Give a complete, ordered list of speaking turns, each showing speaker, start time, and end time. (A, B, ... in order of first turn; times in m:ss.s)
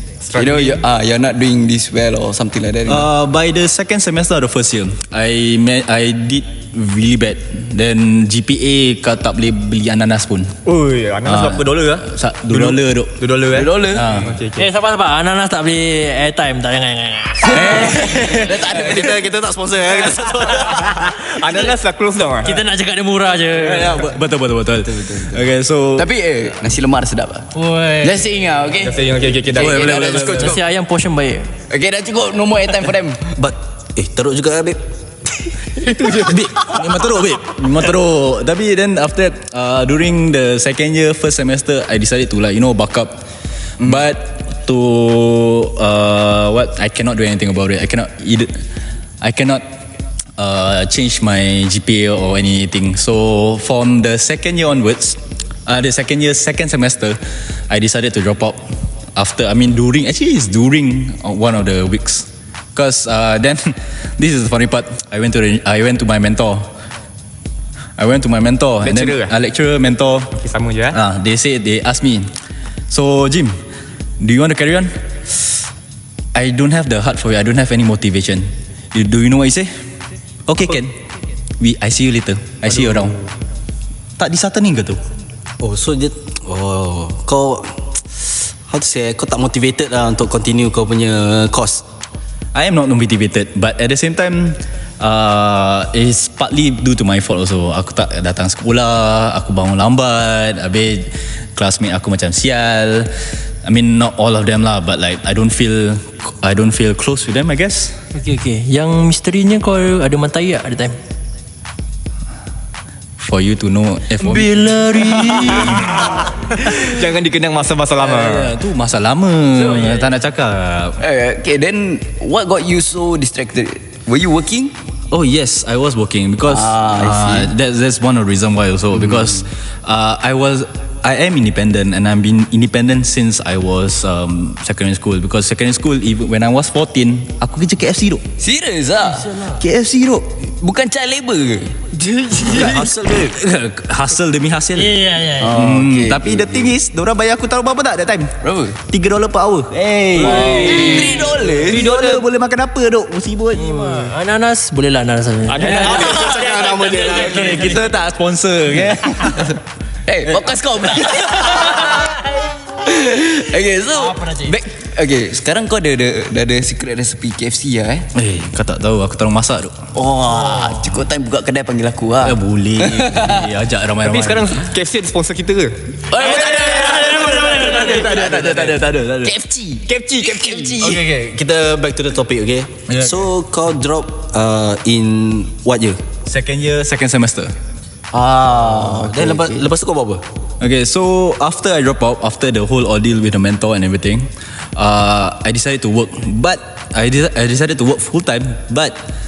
0:00.2-0:00.8 A
0:00.4-0:03.1 B
0:02.8-0:10.5 C
0:10.6-0:14.7 A
0:11.2-0:13.1 C
0:13.5-0:14.0 B
0:13.8-0:14.3 C
0:14.5-0:18.0 D
0:17.4-0:19.0 C
0:18.2-0:19.3 B
0:18.9-0:20.6 E
0:20.3-0:20.9 C
0:20.7-0:21.0 D
0:21.0-0:22.6 A
0:22.4-0:24.1 D
0:23.5-0:26.1 C
0:25.0-0:27.5 B
0:27.5-0:28.2 D
0:28.0-0:30.6 B
0:28.8-0:30.6 A
0:29.5-0:30.5 C
0:30.1-0:31.5 D
0:31.7-0:33.3 B
0:33.4-0:34.8 E
0:35.8-0:36.5 A
0:36.2-0:43.2 C
0:43.8-0:48.5 C
0:49.2-0:49.6 C
0:50.4-0:57.2 C
0:57.7-0:58.6 C
0:59.2-1:06.7 C
1:08.0-1:10.3 C
1:08.8-1:09.3 A
1:10.3-1:11.0 A
1:10.9-1:12.3 C
1:12.9-1:13.6 C
1:14.2-1:14.9 C
1:16.3-1:19.7 C
1:20.5-1:21.0 C
1:21.6-1:23.2 C
1:24.2-1:25.0 C
1:25.6-1:31.8 E
1:32.5-1:43.1 C
1:43.6-1:48.0 C
1:48.1-1:51.0 D
1:53.2-1:56.3 C
1:56.5-1:58.5 A
1:58.0-2:01.0 C
1:59.7-2:00.0 B
2:01.0-2:04.7 B
2:05.1-2:18.2 C
2:06.4-2:07.5 B
2:18.4-2:19.4 B
2:19.2-2:19.5 D
2:19.5-2:20.5 C
2:20.5-2:22.9 B
2:22.5-2:23.3 E
2:22.6-2:28.4 C
2:24.8-2:25.6 D
2:25.4-2:26.7 B
2:28.4-2:28.8 B
2:28.9-2:30.6 C
2:30.2-2:31.4 A
2:30.2-2:32.2 B
2:30.2-2:31.2 D
2:31.5-2:33.8 C
2:33.5-2:37.9 D
2:35.5-2:37.6 A
2:35.7-2:39.6 C
2:40.0-2:48.1 B
2:48.1-2:49.9 C
2:49.9-2:53.4 B
2:52.2-2:54.6 C
2:54.0-2:55.8 A
2:56.1-3:01.1 B
2:56.1-2:59.3 C
3:00.0-3:00.6 A
3:00.8-3:06.0 E
3:02.9-3:03.3 C
3:06.2-3:07.5 C
3:08.1-3:09.6 B
3:08.2-3:10.2 E
3:10.6-3:19.0 C